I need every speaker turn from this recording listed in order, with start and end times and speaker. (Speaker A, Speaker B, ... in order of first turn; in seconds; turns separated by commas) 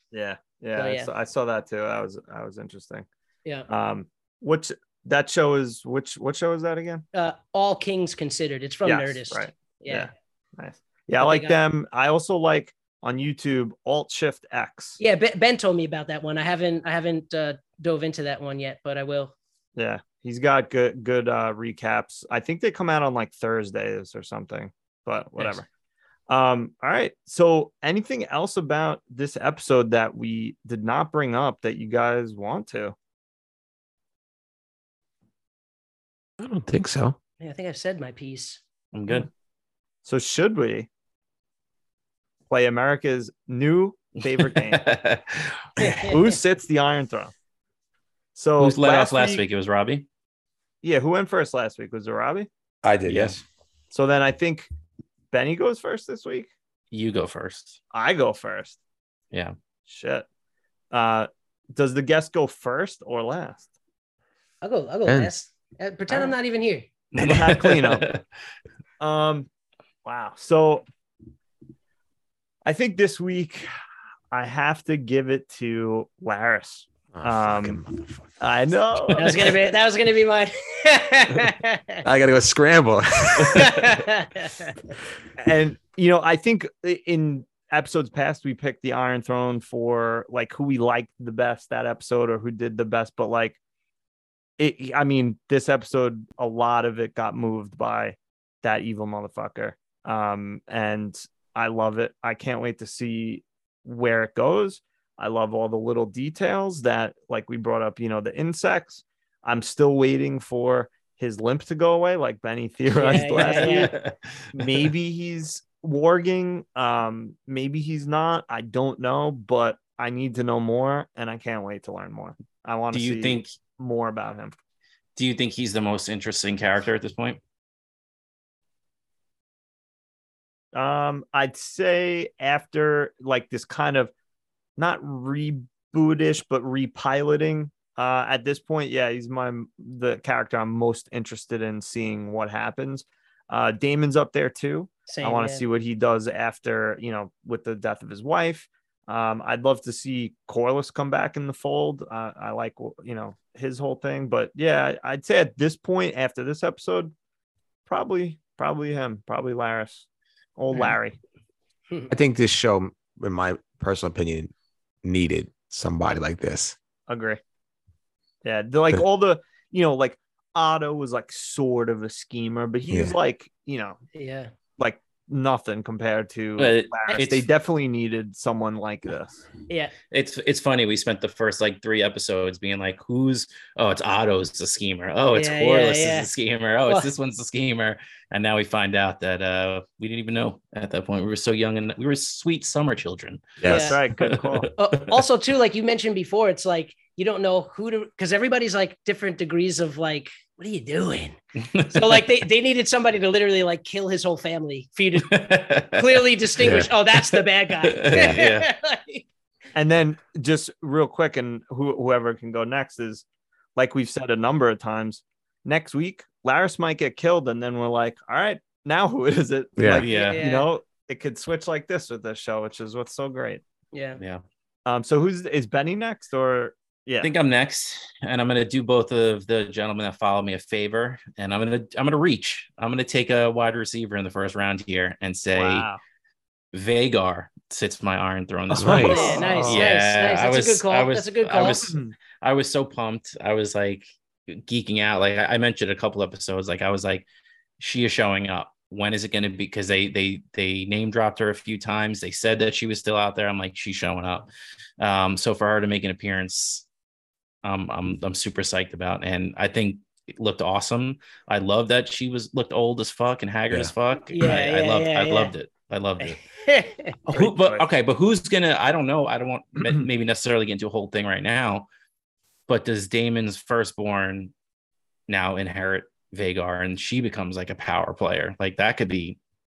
Speaker A: 0.1-3.1, Speaker B: 0.8-1.1, Speaker A: 3.7-7.0, Speaker B: 7.1-10.1, Speaker A: 8.8-15.0, Speaker B: 11.2-11.6, Speaker B: 15.0-19.3, Speaker A: 19.8-25.7, Speaker A: 26.3-33.0, Speaker C: 36.4-37.2, Speaker B: 37.4-38.6, Speaker D: 38.9-39.3, Speaker A: 40.0-40.9, Speaker A: 42.5-44.8, Speaker D: 44.4-45.7, Speaker B: 45.8-46.2, Speaker A: 46.0-47.3, Speaker A: 48.4-49.4, Speaker D: 48.6-50.0, Speaker A: 50.8-52.5, Speaker C: 52.8-53.4, Speaker D: 53.1-53.4, Speaker A: 53.9-54.7, Speaker A: 55.3-56.5, Speaker D: 56.9-57.8, Speaker A: 57.9-58.8, Speaker A: 59.9-60.3, Speaker A: 60.9-63.7, Speaker B: 64.6-66.8, Speaker C: 65.1-65.3, Speaker A: 66.1-66.3, Speaker A: 67.2-68.1, Speaker D: 67.2-68.2, Speaker A: 69.0-69.5, Speaker A: 70.0-70.8, Speaker A: 72.7-73.7, Speaker A: 74.3-77.8, Speaker C: 77.1-78.3, Speaker A: 78.4-79.6, Speaker B: 79.2-82.0, Speaker C: 82.0-83.8, Speaker B: 83.5-84.8, Speaker A: 85.4-93.6, Speaker A: 94.6-113.9, Speaker B: 112.9-113.9, Speaker D: 113.3-114.9, Speaker A: 114.5-124.5, Speaker D: 122.9-123.5, Speaker D: 125.2-127.4, Speaker A: 130.7-134.1, Speaker A: 134.8-157.1, Speaker B: 145.1-145.6, Speaker A: 157.9-160.1, Speaker A: 160.6-161.2, Speaker C: 162.1-164.5, Speaker C: 165.0-166.8, Speaker A: 167.1-167.4, Speaker A: 168.4-174.0, Speaker C: 172.9-173.2, Speaker B: 174.1-174.5, Speaker A: 174.8-179.4, Speaker D: 176.6-177.5, Speaker D: 180.1-193.6, Speaker B: 185.3-186.3, Speaker C: 193.6-194.0, Speaker B: 193.7-194.0, Speaker A: 193.7-194.7, Speaker D: 194.2-195.2, Speaker B: 194.8-201.4, Speaker D: 201.6-202.3, Speaker B: 201.9-209.3, Speaker D: 205.2-208.7, Speaker C: 206.6-206.9, Speaker A: 209.8-213.2, Speaker A: 213.8-223.6, Speaker C: 219.8-220.0, Speaker D: 220.0-220.4, Speaker B: 220.1-220.7, Speaker B: 223.9-224.2, Speaker A: 224.9-227.3, Speaker D: 227.2-235.9, Speaker A: 235.5-236.0, Speaker D: 236.7-247.2, Speaker C: 238.7-239.2, Speaker A: 238.9-239.9, Speaker B: 239.0-241.8, Speaker A: 241.6-242.2, Speaker D: 247.8-254.5, Speaker D: 255.0-256.9, Speaker D: 257.6-266.4, Speaker B: 264.3-265.5, Speaker B: 266.5-267.1, Speaker D: 267.3-271.9, Speaker A: 267.3-267.8, Speaker D: 272.7-274.5, Speaker D: 275.3-279.4